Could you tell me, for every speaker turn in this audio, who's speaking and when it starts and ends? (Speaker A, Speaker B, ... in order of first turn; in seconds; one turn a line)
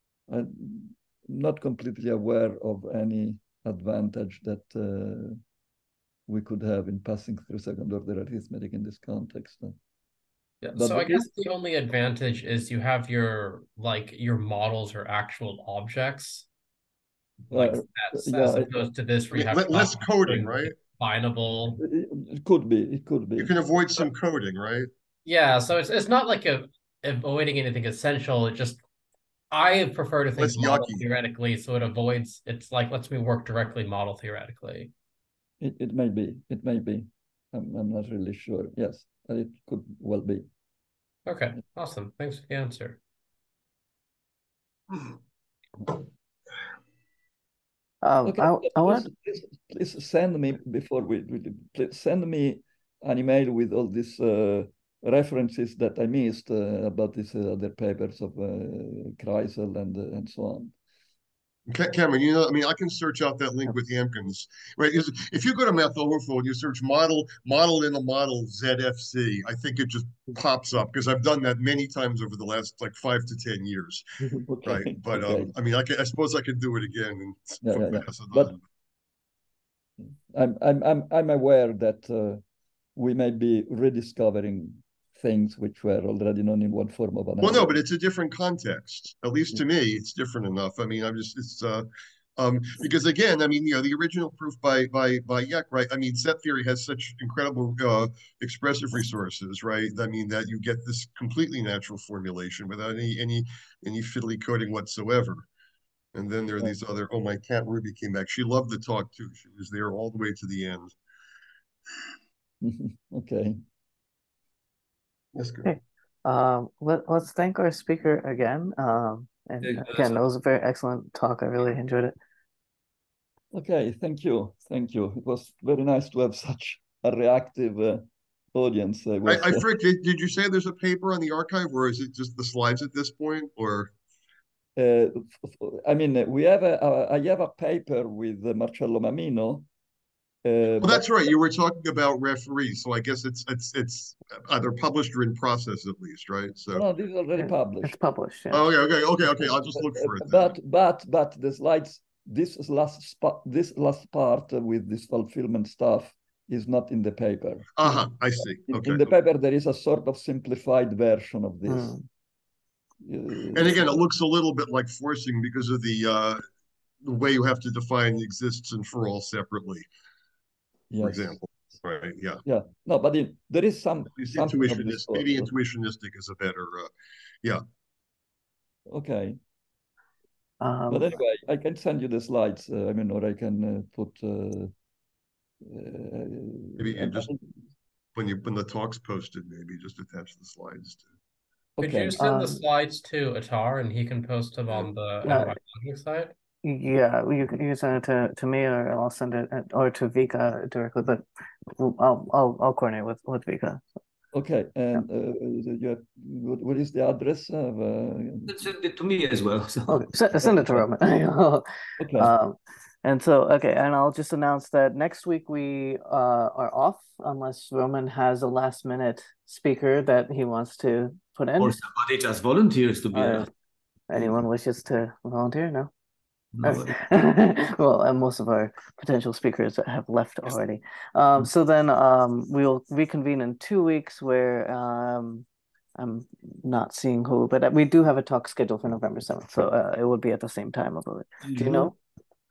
Speaker A: 0.3-5.4
Speaker A: 6.3-9.8
Speaker B: 10.6-16.5
Speaker A: 10.8-11.3
Speaker A: 17.5-18.9
Speaker B: 17.5-21.8
Speaker C: 19.3-20.7
Speaker A: 21.8-23.5
Speaker C: 23.4-24.9
Speaker B: 25.3-28.8
Speaker B: 29.5-34.9
Speaker C: 30.4-31.1
Speaker A: 35.6-40.5
Speaker B: 41.3-43.0
Speaker D: 48.0-49.1
Speaker A: 48.3-60.7
Speaker C: 61.7-74.0
Speaker A: 74.2-75.5
Speaker C: 74.7-78.6
Speaker A: 77.6-78.6
Speaker A: 80.3-82.4
Speaker A: 83.0-87.8
Speaker C: 87.4-91.9
Speaker C: 92.4-105.5
Speaker C: 106.1-110.9
Speaker A: 112.6-113.6
Speaker C: 115.3-115.7
Speaker D: 115.7-122.2
Speaker E: 119.6-120.2
Speaker A: 123.5-129.7
Speaker C: 129.3-133.9
Speaker A: 134.8-139.7
Speaker A: 140.4-141.1
Speaker C: 140.8-146.8
Speaker A: 146.7-148.0
Speaker D: 147.4-148.7
Speaker C: 148.5-150.5
Speaker A: 149.2-158.1
Speaker C: 157.8-159.1
Speaker A: 158.7-162.0
Speaker D: 161.7-162.1
Speaker A: 163.0-164.0
Speaker C: 163.5-166.4
Speaker C: 167.0-169.9
Speaker A: 170.9-171.4
Speaker C: 171.0-172.4
Speaker A: 172.4-175.5
Speaker C: 174.2-176.9
Speaker A: 178.9-179.4
Speaker D: 180.6-181.2
Speaker A: 180.9-184.7
Speaker A: 185.6-187.4
Speaker C: 186.8-187.3
Speaker C: 188.2-191.0
Speaker A: 191.8-192.2
Speaker B: 191.8-196.3
Speaker D: 192.2-192.6
Speaker D: 195.2-195.6
Speaker D: 196.6-203.8
Speaker A: 204.3-208.7
Speaker E: 208.5-210.2
Speaker D: 209.9-211.7
Speaker A: 212.0-212.3
Speaker D: 212.2-221.7
Speaker E: 221.6-223.5
Speaker D: 223.1-223.5
Speaker D: 224.1-225.9
Speaker E: 226.5-226.9
Speaker D: 226.6-235.5
Speaker D: 236.0-242.0
Speaker E: 241.4-241.9